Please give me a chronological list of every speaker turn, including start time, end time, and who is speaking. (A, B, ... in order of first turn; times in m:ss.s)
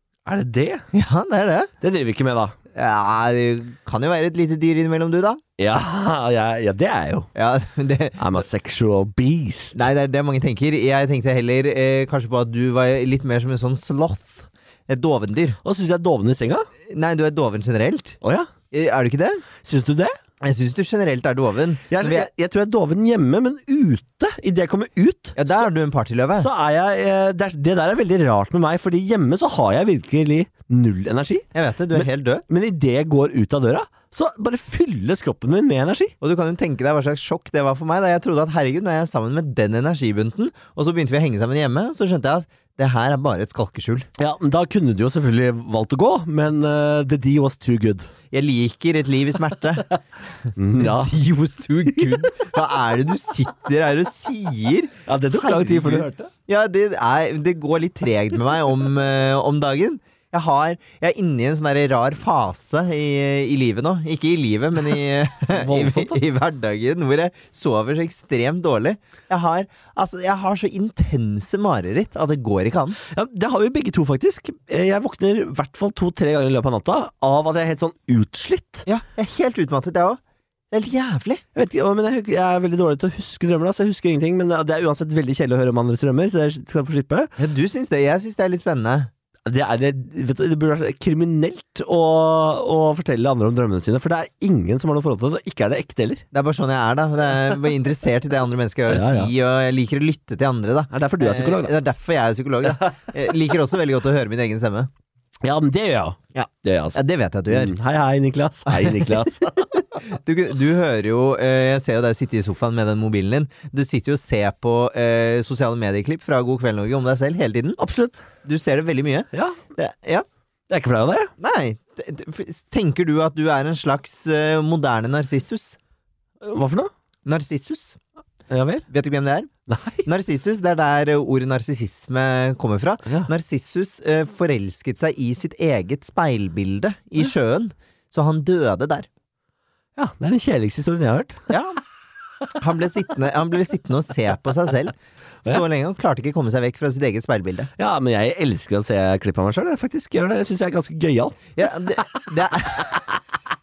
0:00.2-0:00.8 A
0:00.9-0:01.7 B
0:01.8-0:02.6 A
0:02.7-0:05.4 B
0:05.6-0:07.3 A
0:07.3-0:08.3 B
0:08.2-0:09.9 A
0:09.7-0:15.6 B
0:15.6-0:16.7 A
0:16.9-0:18.2 B
0:18.2-0:18.5 A
0:18.7-0:19.4 B
0:19.6-0:20.1 A
0:20.4-0:22.3 B
0:21.9-0:25.5 A
0:25.4-0:26.5 B
0:26.4-0:36.1 A
0:31.5-0:32.4 B
0:36.2-0:44.1 B
0:44.2-0:48.1 A
0:48.3-0:49.9 B
0:50.6-0:51.2 A
0:50.8-1:13.0 B
0:52.0-0:52.3 A
0:55.1-0:56.3 A
1:05.5-1:06.2 A
1:13.1-1:18.8 A
1:18.8-1:20.2 B
1:20.7-1:21.4 B
1:21.5-1:27.3 A
1:27.4-1:29.1 B
1:29.5-1:36.2 A
1:36.3-1:44.9 B
1:38.9-1:39.3 A
1:40.9-1:41.7 A
1:45.4-1:49.7 A
1:46.3-1:47.7 B
1:48.7-1:57.8 B
1:57.8-1:58.2 A
1:58.4-2:00.2 B
1:59.3-1:59.6 A
2:00.7-2:01.3 A
2:01.4-2:05.8 B
2:06.4-2:06.9 A
2:07.2-2:08.0 B
2:08.5-2:08.8 A
2:08.9-2:09.5 B
2:09.7-2:10.1 A
2:10.0-2:19.1 B
2:20.0-2:21.4 A
2:21.5-2:21.8 B
2:22.6-2:27.7 B
2:27.8-2:32.2 A
2:31.6-2:33.0 B